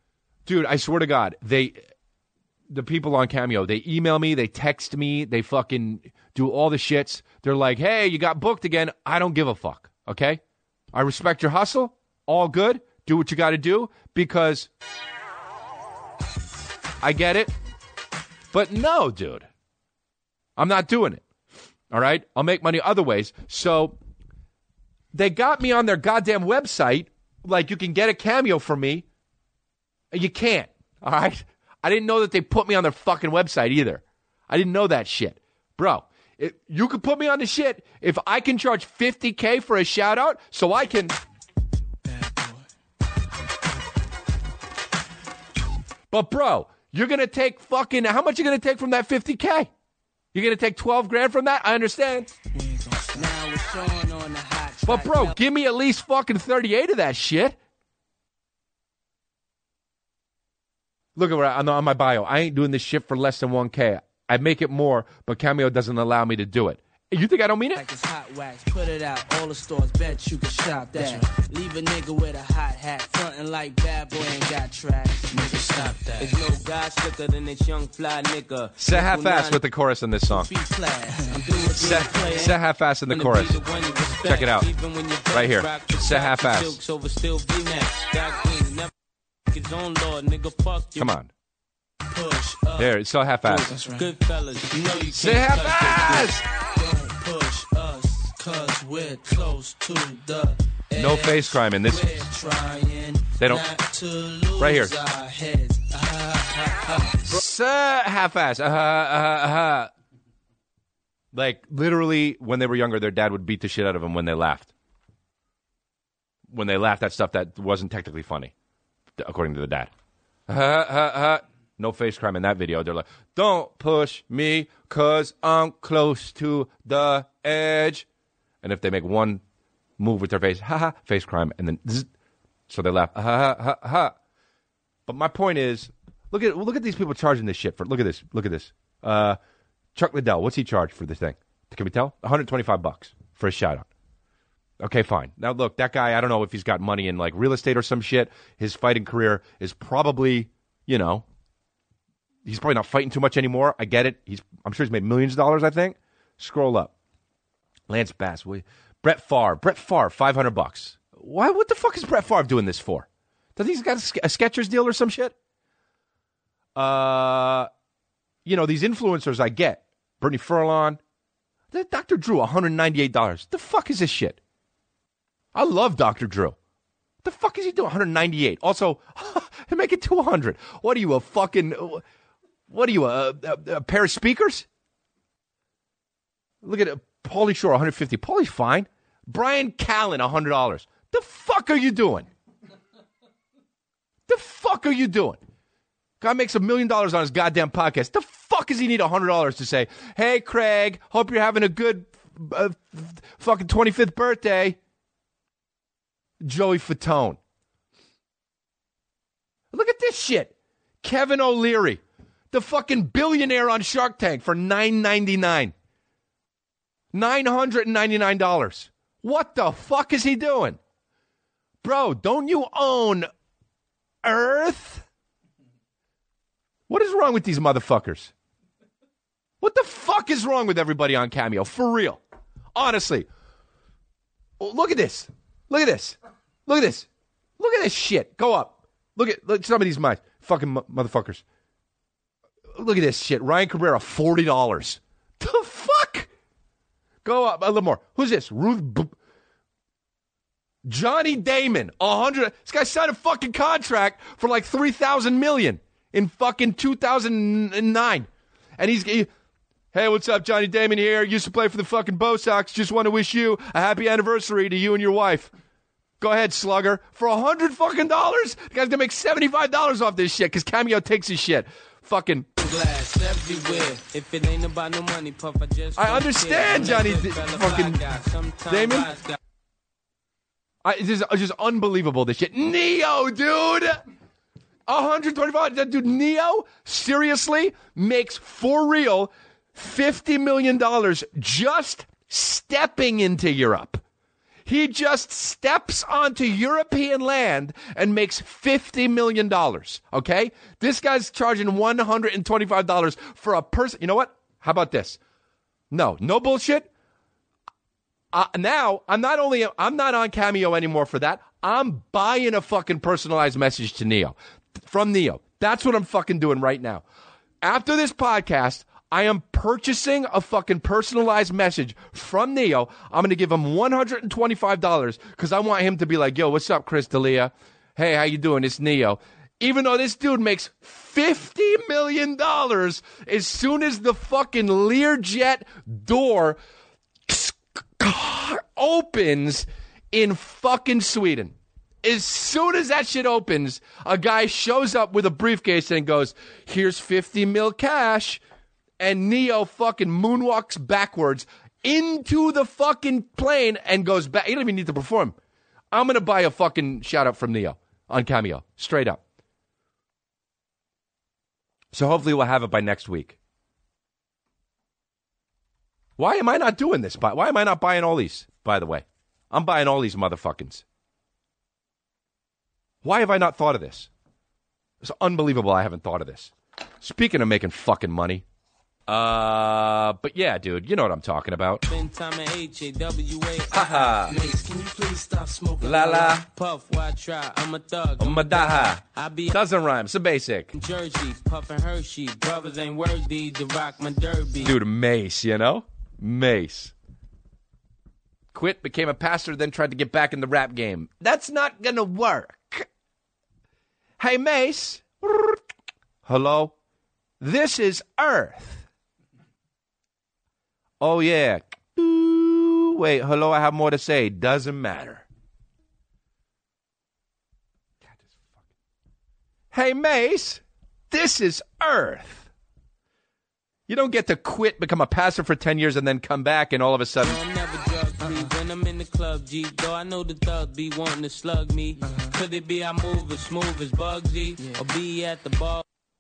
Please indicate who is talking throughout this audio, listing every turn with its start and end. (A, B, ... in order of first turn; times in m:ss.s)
0:00.5-0:01.8 A
0:02.7-0:10.4 A
0:10.9-0:14.7 A
0:17.0-0:17.5 A
0:18.5-0:19.5 A
0:20.6-0:21.2 A
0:21.9-0:24.0 A
0:25.1-0:29.1 A
0:30.1-0:41.2 A
0:42.1-0:42.7 B
0:46.1-0:49.7 A
0:50.3-0:52.3 A
0:52.5-0:55.4 B
0:54.8-0:57.6 A
1:01.2-1:07.8 A
1:07.8-1:16.4 B
1:16.2-1:19.5 C
1:18.8-1:20.5 A
1:20.3-1:22.5 B
1:21.3-1:22.6 C
1:21.8-1:23.6 A
1:23.1-1:28.9 C
1:24.2-1:24.7 A
1:25.3-1:26.8 A
1:29.5-1:31.1 C
1:31.0-1:31.3 A
1:32.1-1:32.9 B
1:32.8-1:33.8 A
1:33.4-1:34.1 B
1:33.9-1:36.0 C
1:34.7-1:47.4 B
1:35.1-1:36.5 A
1:41.0-1:42.3 A
1:43.4-1:43.7 A
1:44.6-1:44.9 A
1:47.2-1:49.9 A
1:51.3-1:54.7 A
1:56.5-1:58.5 A
1:59.2-1:59.9 A
2:00.5-2:08.1 A
2:08.6-2:09.4 A
2:10.0-2:12.1 A
2:12.7-2:14.1 A
2:15.1-2:19.4 A
2:20.0-2:23.9 A
2:24.8-2:31.2 A
2:32.5-2:36.9 A
2:37.9-2:45.4 A
2:46.8-2:47.7 A
2:48.4-2:51.0 A
2:51.7-2:54.4 A
2:55.6-2:56.6 A
2:57.2-3:02.0 A
3:02.7-3:04.7 A
3:06.6-3:12.3 A
3:14.3-3:15.4 A
3:16.2-3:24.8 A
3:26.4-3:27.4 A
3:29.7-3:32.0 A
3:32.5-3:35.7 A
3:37.1-3:40.8 A
3:41.8-3:43.3 A
3:44.2-3:45.1 A
3:46.9-3:48.3 A
3:49.6-3:52.2 A
3:52.8-3:53.3 A
3:54.6-3:57.1 A
3:57.6-4:01.4 A
4:02.7-4:06.3 A
4:07.2-4:09.2 A
4:10.8-4:19.3 A
4:19.9-4:25.5 A
4:26.2-4:32.5 A
4:32.6-4:39.4 C
4:32.7-4:33.8 B
4:36.0-4:38.0 A
4:38.7-4:39.1 A
4:40.8-4:44.0 A
4:44.9-4:54.0 A
4:54.7-5:05.2 A
5:05.9-5:06.9 A
5:08.3-5:17.0 A
5:17.6-5:36.6 A
5:37.3-5:48.4 A
5:49.0-5:55.4 A
5:55.9-5:59.2 A
6:01.9-6:03.4 A
6:06.2-6:10.8 A
6:13.0-6:14.1 A
6:15.0-6:18.4 A
6:19.1-6:21.8 A
6:21.8-6:24.4 C
6:23.7-6:24.4 A
6:24.3-6:26.4 B
6:25.8-6:26.4 A
6:26.1-6:29.6 C
6:28.2-6:30.7 A
6:30.7-6:34.8 C
6:34.6-6:36.9 A
6:38.5-6:42.9 A
6:44.2-6:45.6 A
6:46.2-6:46.8 A
6:47.4-6:48.9 A
6:51.0-6:55.2 A
6:58.1-6:58.4 A
6:59.7-7:02.5 A
7:03.9-7:07.4 A
7:07.2-7:15.8 C
7:08.2-7:08.5 B
7:12.0-7:12.4 B